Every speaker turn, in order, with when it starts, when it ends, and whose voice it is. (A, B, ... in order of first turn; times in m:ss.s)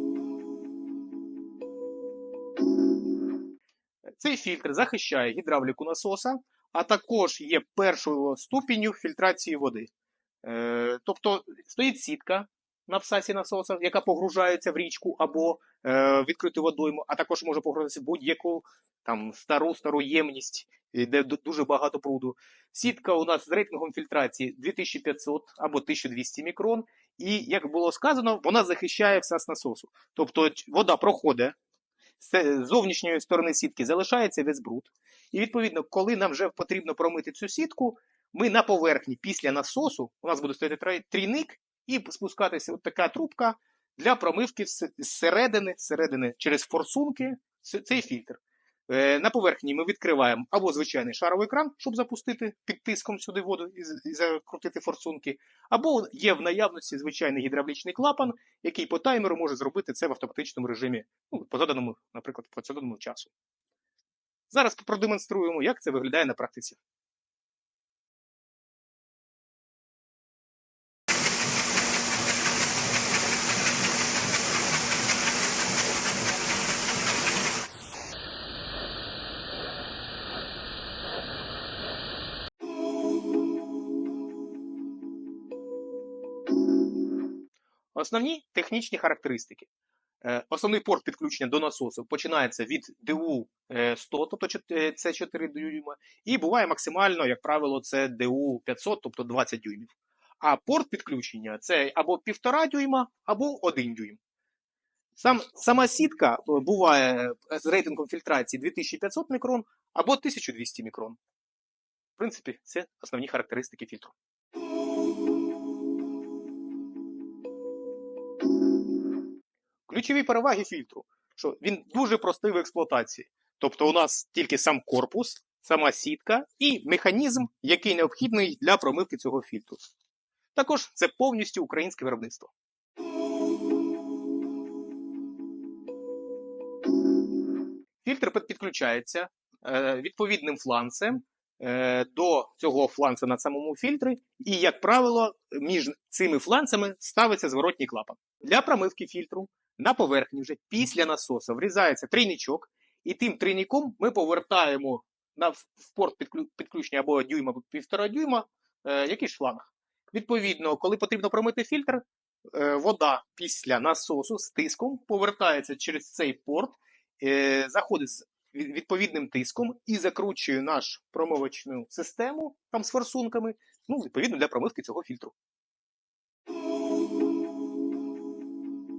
0:04.2-0:09.9 A
0:10.4-0:31.6 A
0:32.2-1:03.3 A
1:04.5-1:06.8 A
1:28.0-1:29.7 A
1:30.2-1:44.2 A
1:45.2-1:51.2 A
1:52.2-1:54.1 A
1:59.9-2:09.8 A
2:10.6-2:12.5 A
2:18.0-2:55.3 A